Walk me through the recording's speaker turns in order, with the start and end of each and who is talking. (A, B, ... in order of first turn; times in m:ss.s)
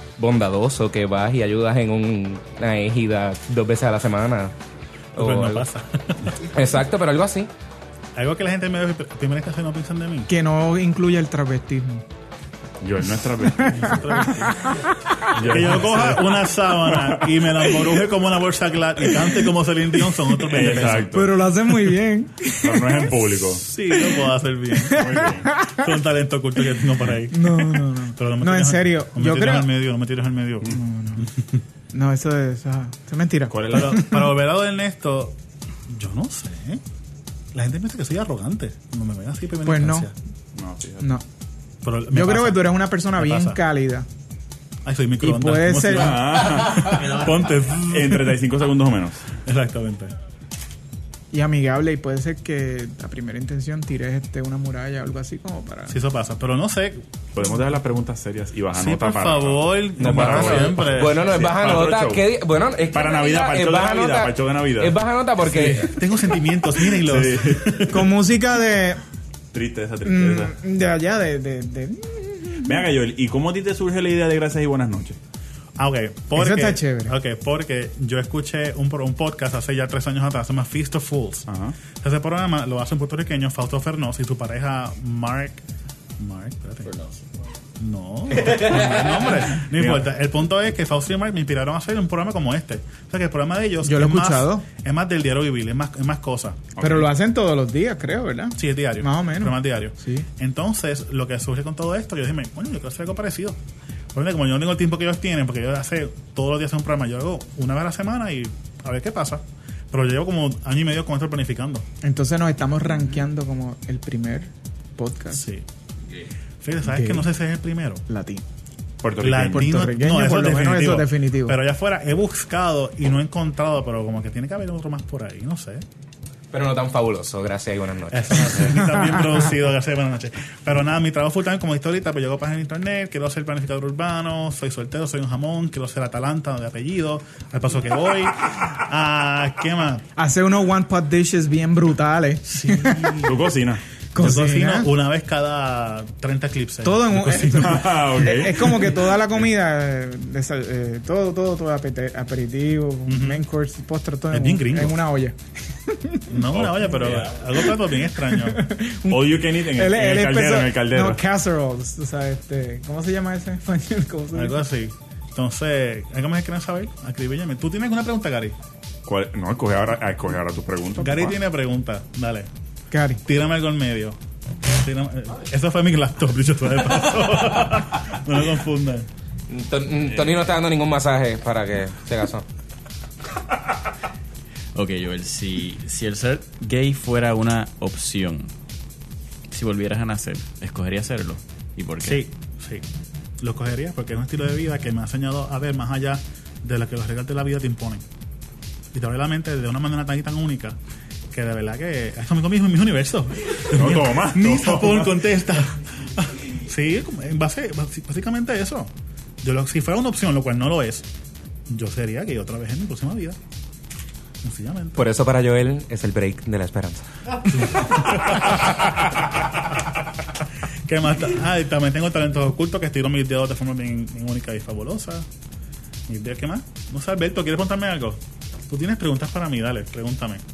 0:00.2-0:04.5 A
0:05.2-0:05.7 A
0:05.2-0:06.3 B
0:06.5-0:07.5 A
0:08.2-0:10.3 B
0:10.3-0:12.0 C
0:12.8-0:14.2 D
0:13.6-0:14.7 C
0:13.7-0:14.6 B
0:15.3-0:16.4 D
0:15.4-0:21.2 B
0:16.9-0:17.3 D
0:20.4-0:21.3 D
0:21.0-0:23.0 C
0:22.6-0:23.6 D
0:23.6-0:25.1 B
0:23.9-0:24.2 C
0:24.7-0:25.8 C
0:24.9-0:25.5 D
0:25.7-0:31.3 B
0:27.3-0:29.7 C
0:30.7-0:31.3 C
0:31.9-0:34.3 C
0:33.5-0:33.9 D
0:33.7-0:35.3 B
0:35.9-0:36.8 B
0:37.5-0:40.1 B
0:39.6-0:40.1 C
0:40.5-0:41.1 D
0:41.8-0:43.6 B
0:42.1-0:44.0 C
0:44.8-0:48.4 B
0:45.2-0:46.2 C
0:45.9-0:47.4 D
0:47.9-0:49.3 D
0:49.4-0:50.1 B
0:51.3-0:56.0 C
0:55.9-0:57.0 B
0:57.3-1:02.2 D
0:58.7-1:01.3 B
1:00.0-1:06.0 A
1:02.9-1:05.0 D
1:05.5-1:05.9 D
1:05.7-1:08.0 B
1:06.9-1:08.0 D
1:07.9-1:09.0 C
1:09.5-1:10.5 D
1:10.0-1:12.7 C
1:12.6-1:15.2 D
1:15.8-1:25.6 B
1:16.3-1:17.1 C
1:21.5-1:21.7 D
1:26.2-1:26.9 B
1:27.8-1:36.7 B
1:29.6-1:30.0 D
1:33.8-1:34.7 C
1:36.8-1:37.1 D
1:36.8-1:40.2 C
1:38.6-1:43.6 B
1:44.1-1:51.8 B
1:52.0-1:55.4 C
1:55.3-1:55.6 B
1:56.6-1:58.0 B
1:56.8-1:57.2 C
1:58.1-1:58.4 C
1:59.0-1:59.7 D
1:59.2-2:05.8 B
1:59.5-2:01.6 C
2:06.5-2:08.6 A
2:08.1-2:20.0 B
2:08.8-2:09.2 C
2:20.2-2:23.2 C
2:22.4-2:23.3 B
2:23.2-2:23.8 D
2:24.1-2:24.9 C
2:24.1-2:27.9 B
2:26.8-2:35.4 C
2:27.6-2:28.9 D
2:33.1-2:33.4 B
2:34.3-2:35.0 B
2:35.9-2:36.4 C
2:36.3-2:38.6 B
2:36.5-2:37.5 D
2:37.6-2:44.6 C
2:39.1-2:41.2 D
2:44.3-2:48.5 B
2:49.0-2:51.4 D
2:51.0-2:52.5 B
2:52.9-2:53.2 C
2:53.2-2:54.2 B
2:54.8-2:59.1 B
2:59.5-3:02.4 A
3:04.7-3:08.5 E
3:09.5-3:12.2 E
3:12.0-3:12.8 B
3:13.4-3:18.0 B
3:18.9-3:20.8 B
3:21.3-3:28.9 B
3:23.7-3:25.2 D
3:29.4-3:31.0 B
3:31.7-3:33.4 B
3:34.4-3:35.0 B
3:35.0-3:37.0 A
3:37.5-3:38.5 B
3:40.9-3:45.2 B
3:46.1-3:50.4 B